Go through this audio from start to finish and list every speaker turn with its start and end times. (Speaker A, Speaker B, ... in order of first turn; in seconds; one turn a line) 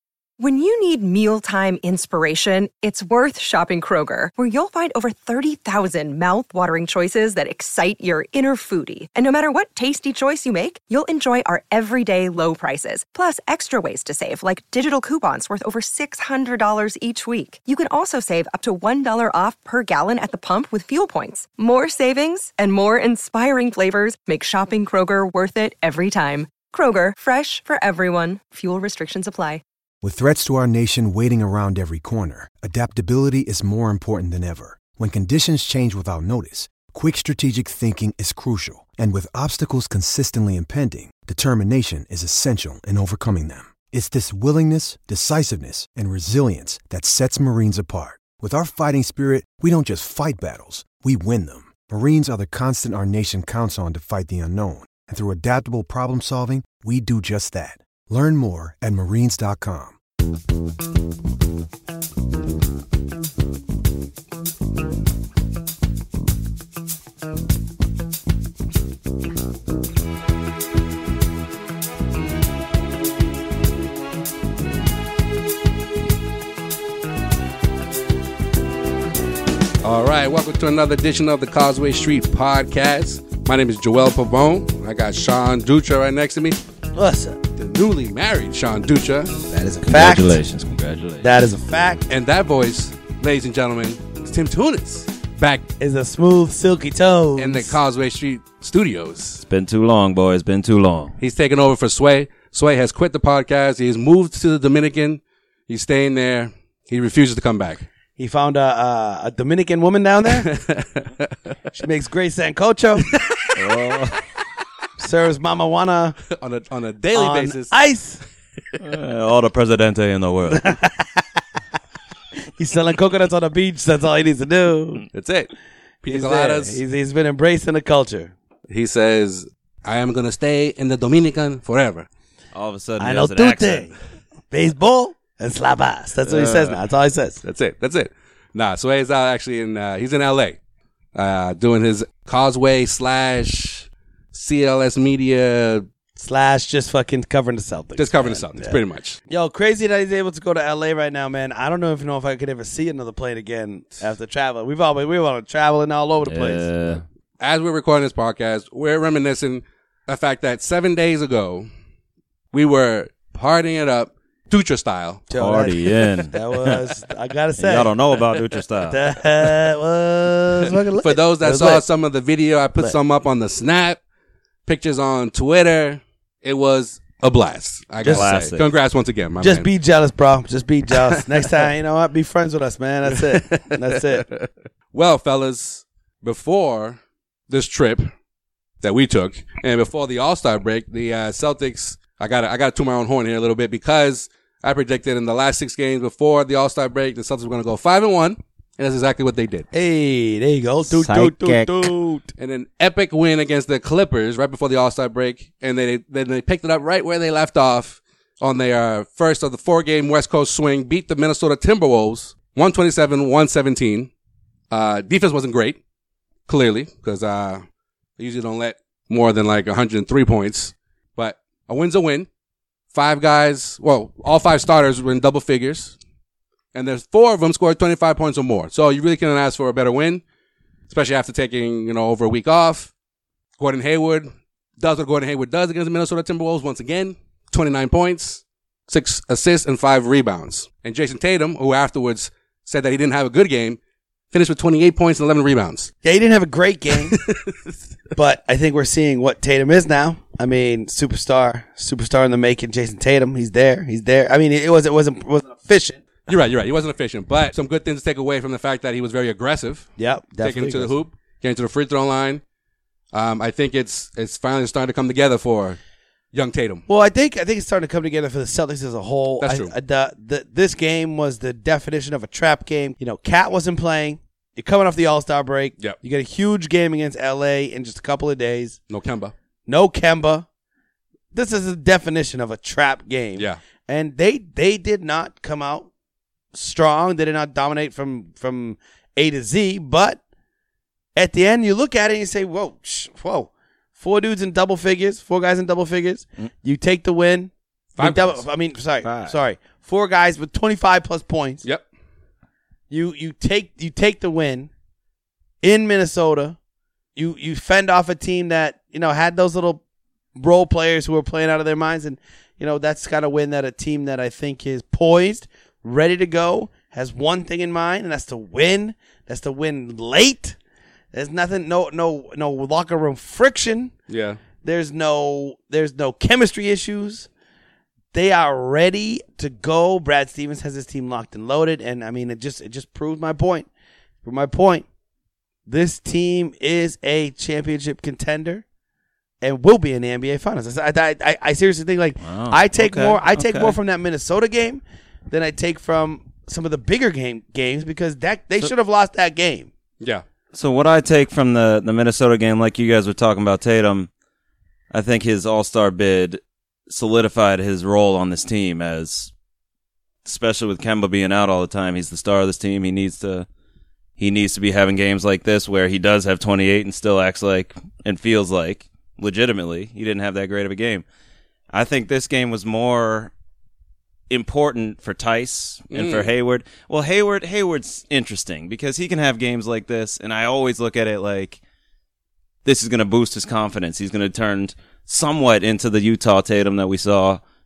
Speaker A: 0.4-29.6
Speaker B: 30.0-60.0
Speaker C: 79.8-86.6
Speaker D: 87.0-87.4
Speaker C: 87.6-89.5
Speaker D: 89.5-90.4
Speaker E: 89.9-91.3
Speaker D: 91.2-92.0
Speaker C: 92.1-95.7
Speaker D: 95.8-97.8
Speaker C: 97.4-99.4
Speaker E: 99.4-101.2
Speaker C: 101.2-107.9
Speaker D: 108.2-110.5
Speaker C: 110.3-111.5
Speaker D: 111.7-113.2
Speaker E: 113.6-114.2
Speaker D: 115.0-116.2
Speaker C: 116.3-117.8
Speaker D: 117.1-118.2
Speaker E: 118.8-120.8
Speaker D: 120.5-121.2
Speaker D: 122.6-125.0
Speaker C: 125.1-125.5
Speaker C: 126.0-126.8
Speaker D: 126.1-128.3
Speaker C: 128.7-132.1
Speaker E: 132.5-134.0
Speaker D: 133.0-133.9
Speaker D: 134.5-137.4
Speaker C: 136.3-136.8
Speaker C: 137.4-140.6
Speaker C: 141.2-145.9
Speaker D: 146.2-156.7
Speaker C: 148.0-149.2
Speaker E: 156.3-157.0
Speaker C: 157.4-161.7
Speaker C: 162.5-165.3
Speaker D: 165.3-167.9
Speaker E: 165.4-166.9
Speaker E: 167.6-169.0
Speaker D: 168.9-171.8
Speaker C: 170.6-174.0
Speaker C: 174.7-179.7
Speaker D: 178.0-178.3
Speaker E: 178.1-178.7
Speaker D: 179.4-184.3
Speaker C: 183.3-187.0
Speaker C: 187.5-188.1
Speaker C: 188.8-199.7
Speaker D: 199.7-202.3
Speaker E: 201.0-201.9
Speaker C: 202.4-214.1
Speaker C: 214.7-215.8
Speaker C: 216.5-217.7
Speaker C: 218.2-222.3
Speaker C: 222.9-226.0
Speaker C: 226.7-230.2
Speaker C: 230.9-232.9
Speaker C: 233.6-243.8
Speaker C: 244.3-245.9
Speaker D: 246.0-247.2
Speaker C: 247.1-247.7
Speaker D: 248.2-256.3
Speaker C: 256.3-262.4
Speaker D: 260.0-260.9
Speaker C: 263.1-265.8
Speaker C: 266.3-266.8
Speaker D: 266.9-278.8
Speaker C: 269.4-269.7
Speaker C: 278.9-279.3
Speaker D: 279.7-280.5
Speaker D: 281.3-285.9
Speaker D: 286.5-290.2
Speaker D: 291.2-301.6
Speaker C: 298.0-298.4
Speaker E: 299.0-299.4
Speaker D: 302.9-304.7
Speaker D: 305.6-306.6
Speaker D: 307.2-309.8
Speaker D: 310.4-320.6
Speaker D: 321.1-323.9
Speaker C: 324.1-324.4
Speaker D: 324.6-327.3
Speaker D: 328.1-333.7
Speaker D: 334.2-334.9
Speaker D: 335.7-338.6
Speaker D: 339.4-349.7
Speaker E: 342.2-343.8
Speaker E: 350.5-354.1
Speaker E: 354.9-359.3
Speaker E: 360.2-363.5
Speaker E: 364.2-371.1
Speaker E: 371.7-373.3
Speaker E: 374.3-381.6
Speaker C: 375.9-376.3
Speaker E: 382.6-387.4